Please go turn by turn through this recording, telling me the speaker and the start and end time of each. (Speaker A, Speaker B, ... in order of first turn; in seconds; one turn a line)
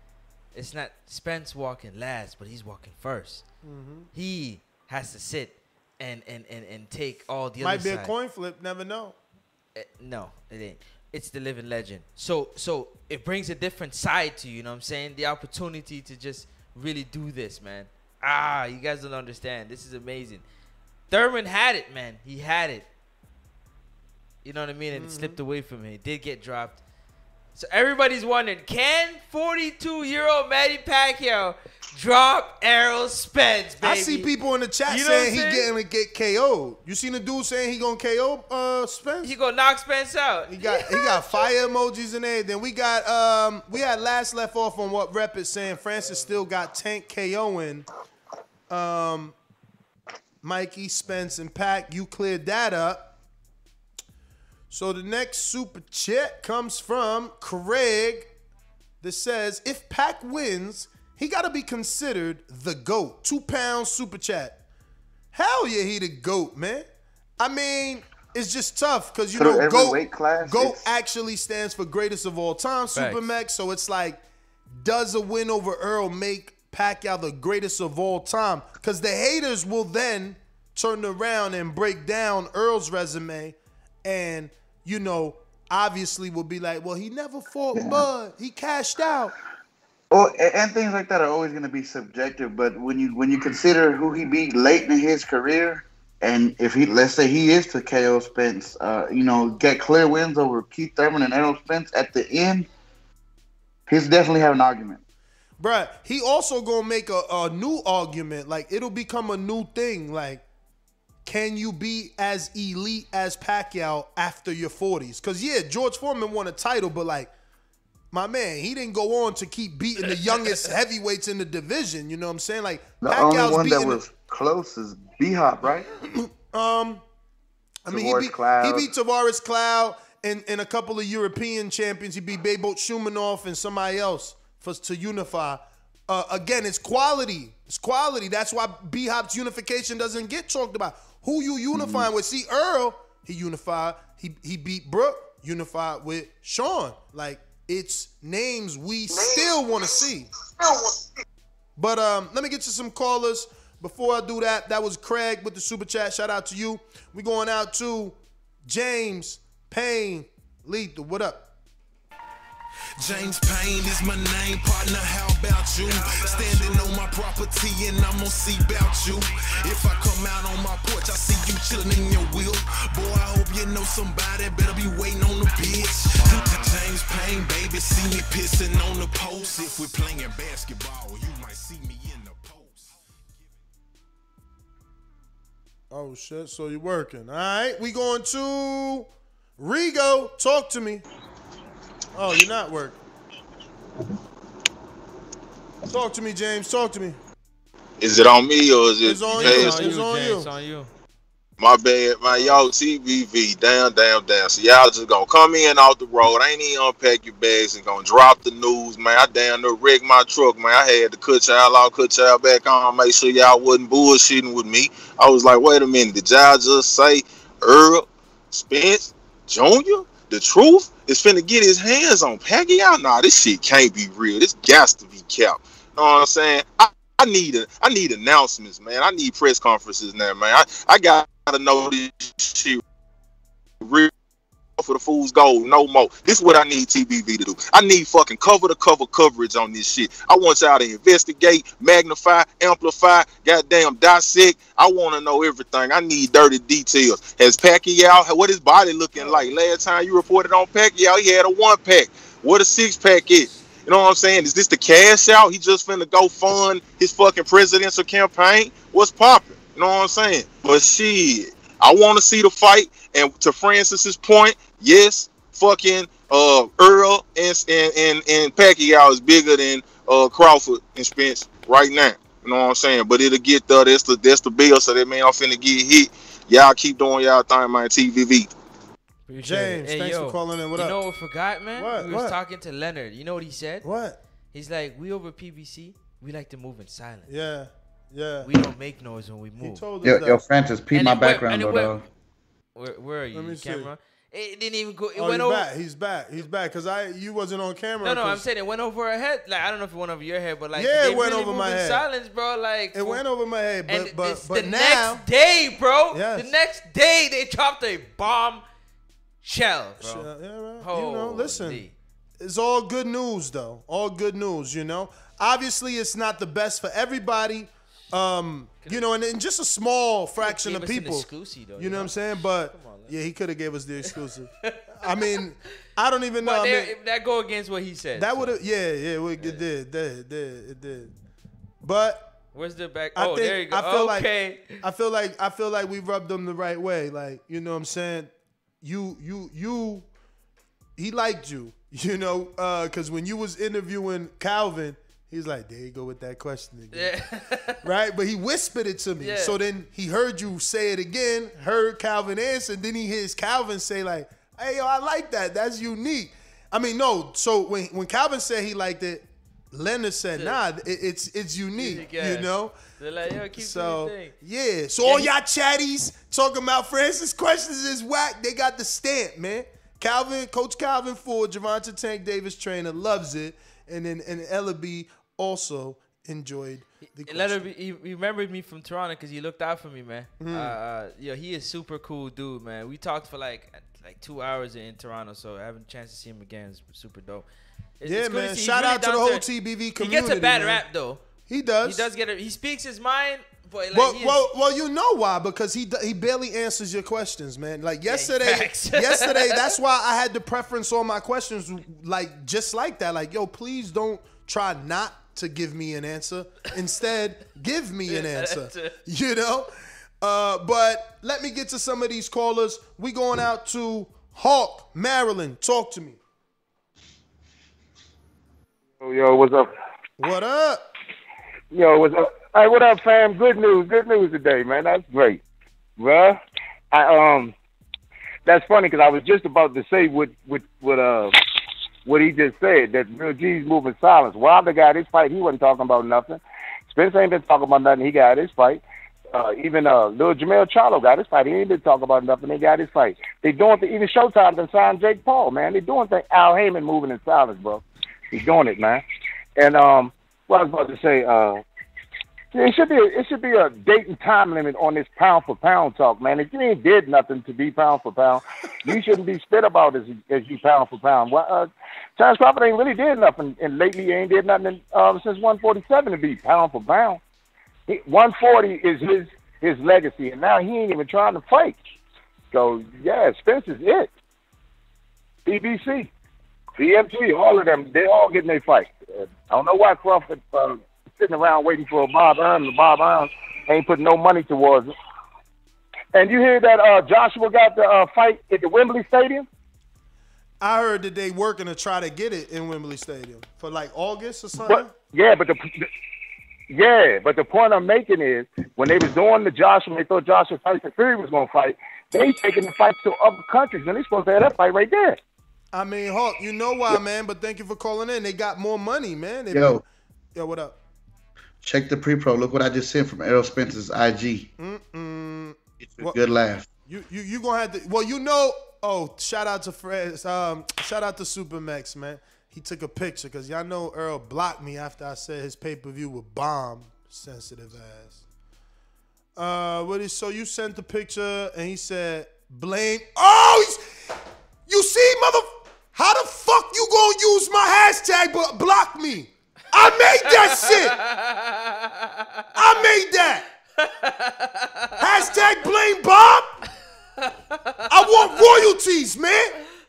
Speaker A: 0.5-3.4
Speaker B: 3.6-4.1
Speaker A: 4.1-8.1
Speaker B: 7.6-9.2
Speaker A: 9.8-20.4
Speaker A: 21.1-22.9
Speaker A: 24.4-26.8
Speaker B: 24.9-25.4
Speaker A: 27.5-34.3
Speaker B: 33.8-39.3
Speaker A: 34.9-35.7
Speaker A: 39.2-41.5
Speaker B: 40.5-47.9
Speaker B: 48.7-49.3
Speaker B: 50.4-53.1
Speaker B: 54.7-58.3
Speaker B: 59.0-64.6
Speaker B: 65.3-66.8
Speaker B: 67.4-74.2
Speaker C: 69.3-70.8
Speaker A: 72.9-73.2
Speaker B: 74.7-89.3
Speaker C: 87.7-88.0
Speaker C: 90.1-102.7
Speaker C: 103.9-105.0
Speaker B: 105.6-110.4
Speaker B: 111.2-117.3
Speaker B: 118.1-124.0
Speaker C: 123.0-125.9
Speaker B: 126.2-127.0
Speaker B: 127.8-150.3
Speaker C: 127.9-128.9
Speaker C: 141.7-142.1
Speaker C: 149.2-149.5
Speaker B: 151.8-158.2
Speaker B: 158.7-161.5
Speaker D: 163.0-183.0
Speaker B: 185.9-191.0
Speaker B: 192.1-193.0
Speaker B: 195.9-197.2
Speaker E: 198.0-199.7
Speaker B: 199.0-200.5
Speaker A: 199.3-200.9
Speaker E: 201.6-232.8
Speaker A: 202.3-202.6
Speaker E: 233.8-234.1
Speaker E: 234.8-278.5
Speaker A: 279.2-283.8
Speaker B: 279.4-281.0
Speaker B: 281.8-282.4
Speaker B: 283.8-284.2
Speaker A: 284.5-287.3
Speaker B: 287.3-288.5
Speaker A: 288.4-289.8
Speaker B: 289.6-290.4
Speaker C: 290.0-292.0
Speaker A: 290.9-292.0
Speaker A: 292.7-295.6
Speaker B: 293.3-293.9
Speaker B: 295.1-298.4
Speaker A: 298.0-303.2
Speaker B: 300.7-302.0
Speaker B: 302.9-305.2
Speaker A: 303.9-308.6
Speaker B: 306.1-306.5
Speaker A: 309.4-310.3
Speaker B: 310.0-311.8
Speaker A: 310.8-311.9
Speaker B: 312.4-326.9
Speaker A: 320.4-322.2
Speaker A: 322.7-323.1
Speaker A: 324.6-325.2
Speaker A: 326.4-328.5
Speaker B: 328.1-331.1
Speaker B: 331.8-332.3
Speaker A: 332.5-334.8
Speaker B: 333.1-334.3
Speaker B: 334.8-338.3
Speaker B: 338.8-340.1
Speaker B: 341.0-347.1
Speaker A: 346.9-347.8
Speaker B: 347.8-362.8
Speaker A: 349.2-349.6
Speaker A: 360.3-360.6
Speaker A: 361.8-364.3
Speaker B: 363.5-377.6
Speaker A: 365.0-365.3
Speaker A: 377.0-387.4
Speaker B: 380.4-380.7
Speaker A: 388.0-389.4
Speaker B: 388.0-390.8
Speaker A: 390.0-391.2
Speaker B: 391.5-392.1
Speaker A: 391.8-394.4
Speaker B: 393.9-409.7
Speaker A: 398.1-399.6
Speaker A: 408.1-408.9
Speaker B: 410.2-416.2
Speaker F: 419.0-419.7
Speaker B: 420.2-420.9
Speaker F: 421.7-425.4
Speaker F: 426.0-426.4
Speaker F: 426.9-427.5
Speaker F: 428.4-431.4
Speaker F: 432.0-449.0
Speaker F: 449.6-451.6
Speaker F: 452.5-467.2
Speaker F: 467.9-471.8
Speaker F: 472.5-474.1
Speaker F: 475.4-476.1
Speaker F: 476.8-484.9
Speaker F: 486.1-489.5
Speaker B: 490.6-494.9
Speaker F: 494.6-495.9
Speaker F: 496.7-505.2
Speaker B: 505.7-510.8
Speaker C: 509.5-509.8
Speaker C: 511.6-514.5
Speaker B: 514.6-516.2
Speaker C: 515.9-516.7
Speaker B: 516.9-528.2
Speaker B: 529.4-533.8
Speaker B: 534.7-541.0
Speaker A: 540.2-542.5
Speaker B: 542.5-543.5
Speaker A: 543.8-545.0
Speaker B: 545.0-546.6
Speaker B: 547.9-549.5